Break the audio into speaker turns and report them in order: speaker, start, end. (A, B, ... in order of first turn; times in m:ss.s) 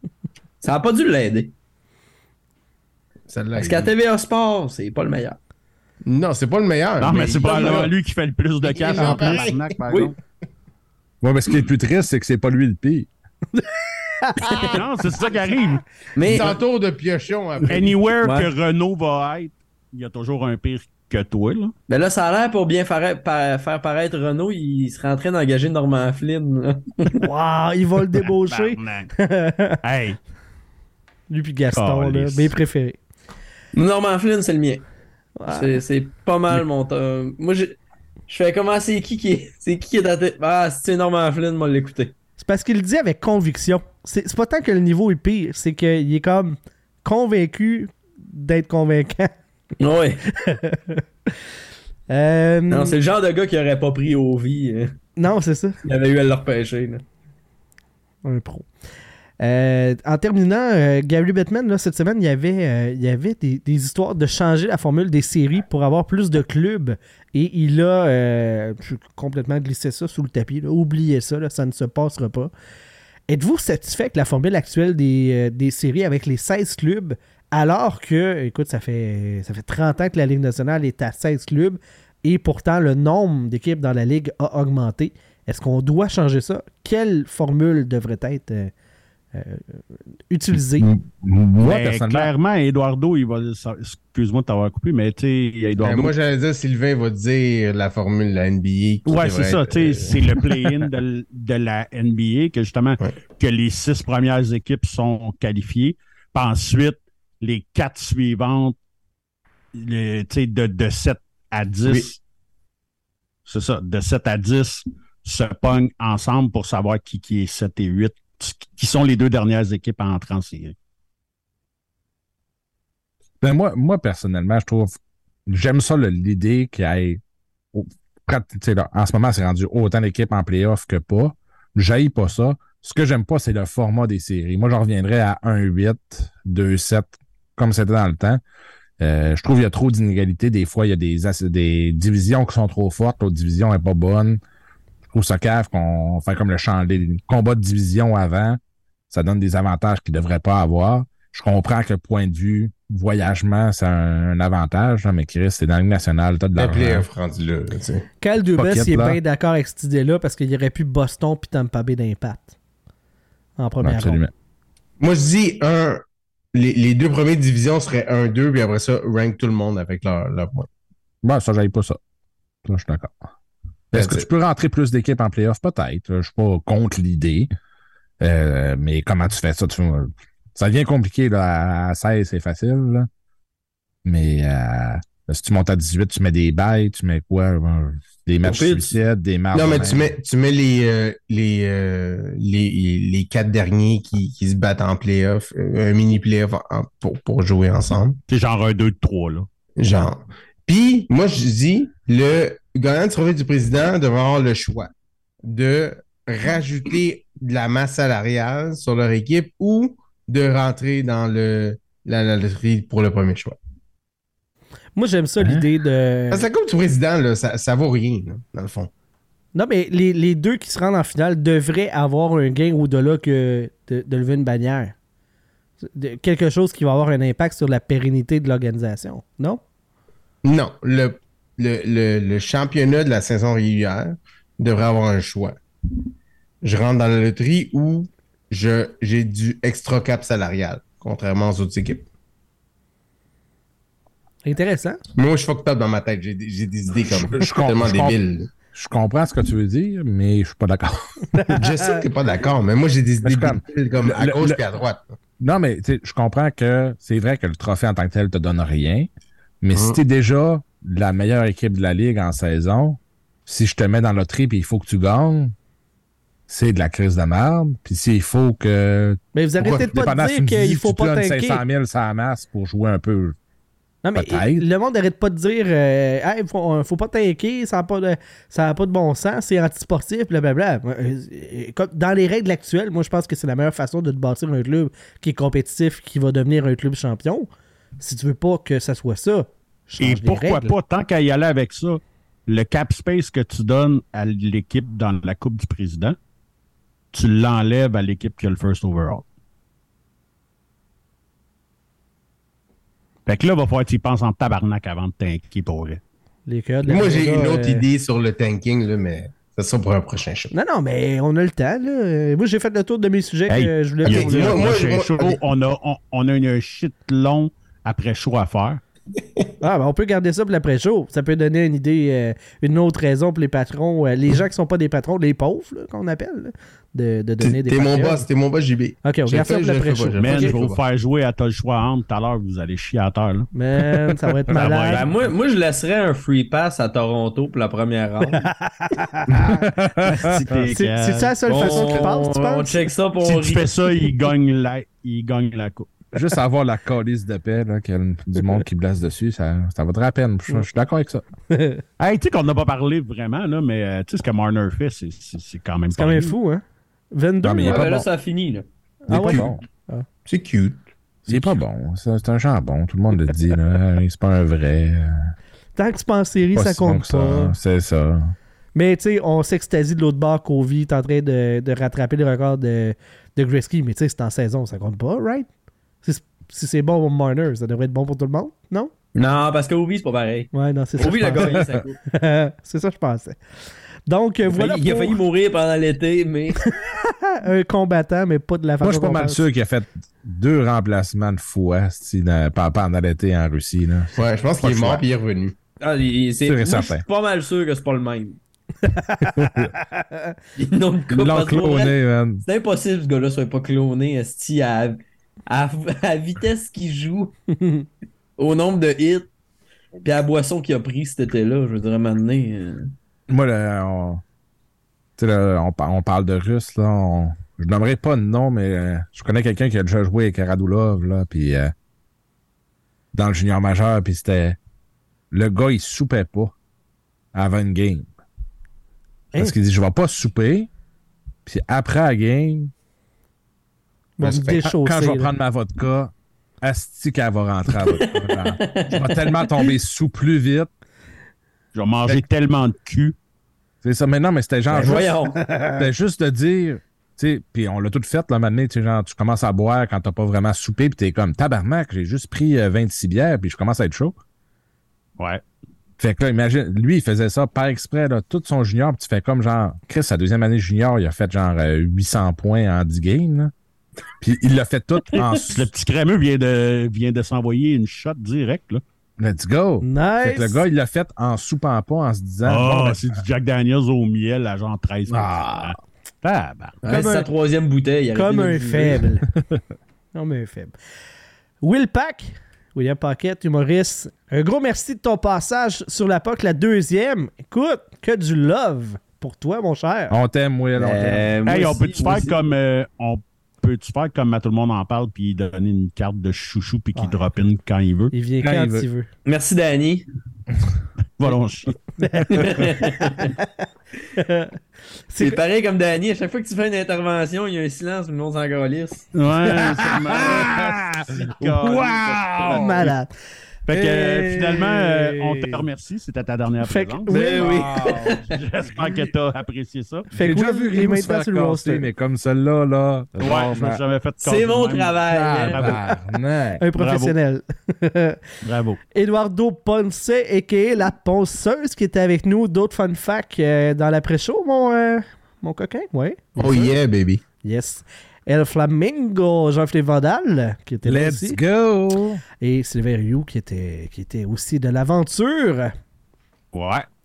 0:00.6-0:01.5 A
0:03.3-0:03.9 B
0:03.6-0:05.4 A
0:06.0-0:07.9 B
0:07.0-0:10.1 C
0:07.4-0:07.9 A
0:08.6-0:09.7 B
0:09.0-0:10.1 A
0:11.2-0:13.1 D
0:14.2-0:14.6 E
0:14.6-0:15.8 C
0:16.2-0:16.6 A
0:16.2-0:18.0 B
0:17.7-0:21.7 C
0:18.2-0:18.5 A
0:21.9-0:27.2 A
0:27.1-0:29.8 E
0:28.4-0:29.1 C
0:29.8-0:30.2 C
0:31.3-0:33.0 E
0:31.7-0:32.5 C
0:33.7-0:34.8 A
0:35.4-0:35.8 E
0:35.5-0:37.8 A
0:38.3-0:42.1 A
0:42.4-0:49.3 E
0:49.8-0:50.2 A
0:50.3-0:51.0 E
0:52.1-0:53.0 E
0:52.7-0:55.0 A
0:55.2-0:55.8 E
0:55.8-0:57.0 A
0:58.2-0:58.6 E
0:59.4-1:12.5 E
1:13.3-1:28.7 E
1:29.3-1:30.9 E
1:30.8-1:32.3 D
1:31.6-1:36.1 C
1:35.8-1:40.2 B
1:39.0-1:48.8 C
1:49.7-1:52.2 C
1:53.4-2:00.7 C
2:03.4-2:04.9 D
2:05.5-2:07.2 D
2:07.7-2:18.4 D
2:19.0-2:24.4 D
2:25.1-2:37.1 D
2:36.6-2:38.0 B
2:38.2-2:42.5 E
2:38.6-2:39.2 D
2:43.6-2:44.2 E
2:43.8-2:44.3 D
2:45.0-2:50.7 B
2:51.2-2:52.0 D
2:52.6-2:53.2 D
2:53.9-2:57.5 D
2:53.9-2:54.3 B
2:58.2-3:03.1 D
3:04.0-3:10.1 D
3:08.4-3:09.0 A
3:09.5-3:18.2 B
3:18.3-3:19.5 C
3:19.8-3:24.9 B
3:25.4-3:33.6 B
3:35.0-3:36.5 E
3:35.4-3:35.6 D
3:36.3-3:38.9 B
3:39.5-3:44.9 E
3:45.9-3:49.6 E
3:50.4-3:55.6 B
3:56.6-4:02.0 B
4:04.4-4:05.0 E
4:05.2-4:08.5 B
4:07.0-4:08.2 D
4:08.7-4:11.2 D
4:11.3-4:12.0 E
4:11.5-4:15.0 B
4:13.2-4:14.6 D
4:15.4-4:19.1 D
4:19.6-4:25.5 D
4:19.7-4:20.0 B
4:26.5-4:33.4 D
4:29.3-4:31.6 E
4:34.0-4:47.5 E
4:34.1-4:34.6 D
4:48.0-4:50.8 E
4:50.0-4:56.2 C
4:57.1-4:59.2 C
5:03.3-5:06.0 C
5:06.5-5:07.8 E
5:06.8-5:10.5 B
5:10.5-5:14.7 E
5:13.5-5:18.8 C
5:14.0-5:15.4 B
5:19.6-5:28.2 E
5:27.4-5:30.8 B
5:29.0-5:30.5 E
5:30.2-5:33.5 C
5:33.5-5:35.0 E
5:34.5-5:35.1 C
5:34.9-5:38.4 A
5:38.4-5:39.6 E
5:39.3-5:40.6 D
5:40.1-5:42.1 C
5:40.7-5:42.9 E
5:41.4-5:43.7 A
5:43.2-5:45.9 C
5:46.1-5:51.2 D
5:51.5-5:51.8 E
5:52.0-5:56.3 C
5:55.9-5:57.9 E
5:57.4-5:58.1 D
5:57.6-5:58.6 A
5:59.1-6:00.0 E
5:59.1-5:59.6 D
6:00.2-6:00.8 B
6:01.3-6:05.3 D
6:05.8-6:07.5 E
6:06.5-6:08.3 D
6:08.7-6:15.5 E
6:16.0-6:18.9 E
6:19.1-6:22.0 A
6:20.5-6:21.6 E
6:21.4-6:21.8 D
6:22.1-6:23.4 E
6:24.1-6:25.2 E
6:24.5-6:26.6 A
6:26.8-6:29.5 E
6:28.8-6:35.0 D
6:34.2-6:35.5 B
6:35.8-6:38.4 A
6:36.4-6:37.0 D
6:38.8-6:40.3 E
6:39.3-6:39.7 D
6:40.6-6:47.3 A
6:41.1-6:42.4 D
6:47.5-6:47.8 E
6:48.4-6:49.3 A
6:50.0-6:52.9 A
6:53.3-6:54.2 D
6:55.2-7:01.7 D
7:03.1-7:04.6 D
7:05.3-7:06.5 D
7:07.3-7:08.1 D
7:09.4-7:10.7 D
7:11.4-7:12.7 D
7:14.2-7:15.3 E
7:14.2-7:20.7 D
7:17.9-7:19.7 A
7:21.7-7:23.1 C
7:23.8-7:25.2 D
7:24.7-7:25.4 A
7:25.5-7:25.8 E
7:25.8-7:34.2 D
7:36.0-7:43.5 D
7:44.2-7:45.7 D
7:45.4-7:48.8 C
7:49.2-7:53.2 D
7:49.8-7:50.6 E
7:52.4-7:56.8 C
7:55.1-7:55.8 D
7:56.8-7:59.0 A
7:56.8-7:57.3 E
7:58.1-7:59.2 E
8:00.1-8:00.7 E
8:01.6-8:10.2 E
8:10.1-8:11.3 D
8:10.8-8:12.3 A
8:11.4-8:18.1 C
8:18.1-8:19.1 E
8:18.4-8:18.8 D
8:19.2-8:20.1 A
8:21.2-8:21.7 C
8:22.0-8:23.6 E
8:22.3-8:23.3 A
8:24.1-8:24.6 E
8:25.1-8:25.4 E
8:25.2-8:29.1 A
8:29.1-8:32.9 C
8:29.4-8:32.9 D
8:32.5-8:33.1 E
8:33.7-8:37.5 C
8:33.7-8:35.6 D
8:36.6-8:37.5 E
8:37.1-8:38.4 A
8:37.4-8:38.9 D
8:38.3-8:40.1 C
8:40.1-8:41.9 E
8:40.1-8:43.8 D
8:43.2-8:45.6 C
8:44.2-8:45.8 A
8:45.1-8:46.6 D
8:46.6-8:48.2 E
8:46.8-8:47.1 C
8:48.4-8:48.8 C
8:48.9-8:56.8 E
8:56.4-8:57.2 B
8:57.4-9:01.4 E
9:00.8-9:02.2 D
9:02.4-9:05.7 E
9:06.5-9:06.9 C